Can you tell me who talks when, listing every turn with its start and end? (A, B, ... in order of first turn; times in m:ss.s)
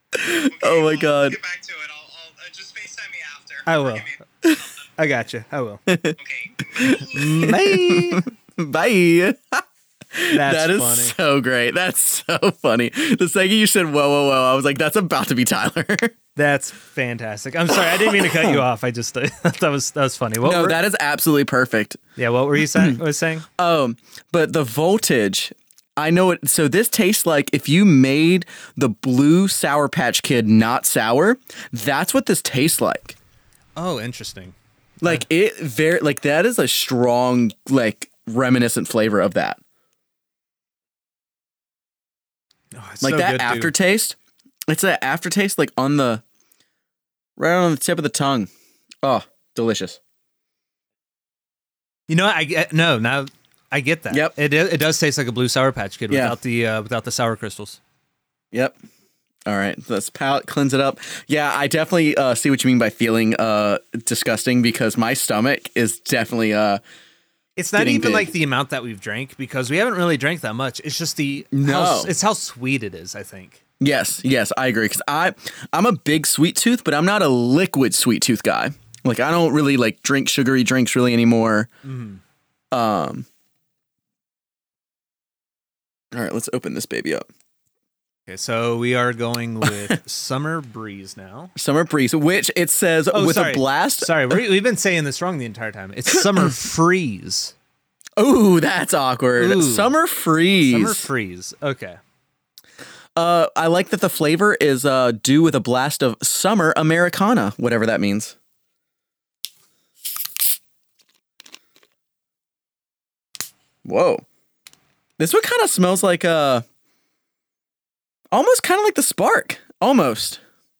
0:00.1-0:01.4 A
0:00.4-0:04.8 B
0:03.6-0:04.1 C
0:05.0-0:05.8 C
0:05.9-0:06.2 A
0:06.2-0:07.3 B
0:06.8-0:16.1 A
0:07.1-0:08.3 C
0:10.3-0:11.1 C
0:16.4-0:20.8 C
0:17.7-0:18.6 A
0:20.4-0:22.0 A
0:22.2-0:23.4 C
0:22.6-0:23.0 A
0:23.6-0:33.1 A
0:33.8-0:35.2 C
0:35.0-0:39.6 A
0:42.7-0:43.7 C
0:43.0-0:44.2 A
0:44.7-0:46.2 A
0:47.4-0:48.5 A
0:49.0-0:50.0 A
0:52.1-0:57.8 C
0:56.1-0:56.4 A
0:59.5-1:06.8 A
1:07.6-1:13.6 C
1:07.8-1:08.3 A
1:11.5-1:12.1 A
1:13.8-1:21.7 A
1:21.8-1:22.2 C
1:22.7-1:23.3 A
1:26.1-1:27.2 A
1:28.3-1:31.5 C
1:31.6-1:34.4 A
1:33.1-1:37.5 C
1:36.2-1:36.5 A
1:38.2-1:41.1 A
1:39.4-1:39.9 C
1:40.6-1:42.0 C
1:43.2-1:48.3 A
1:53.8-1:54.2 A
1:55.2-1:56.6 A
1:58.3-2:00.4 A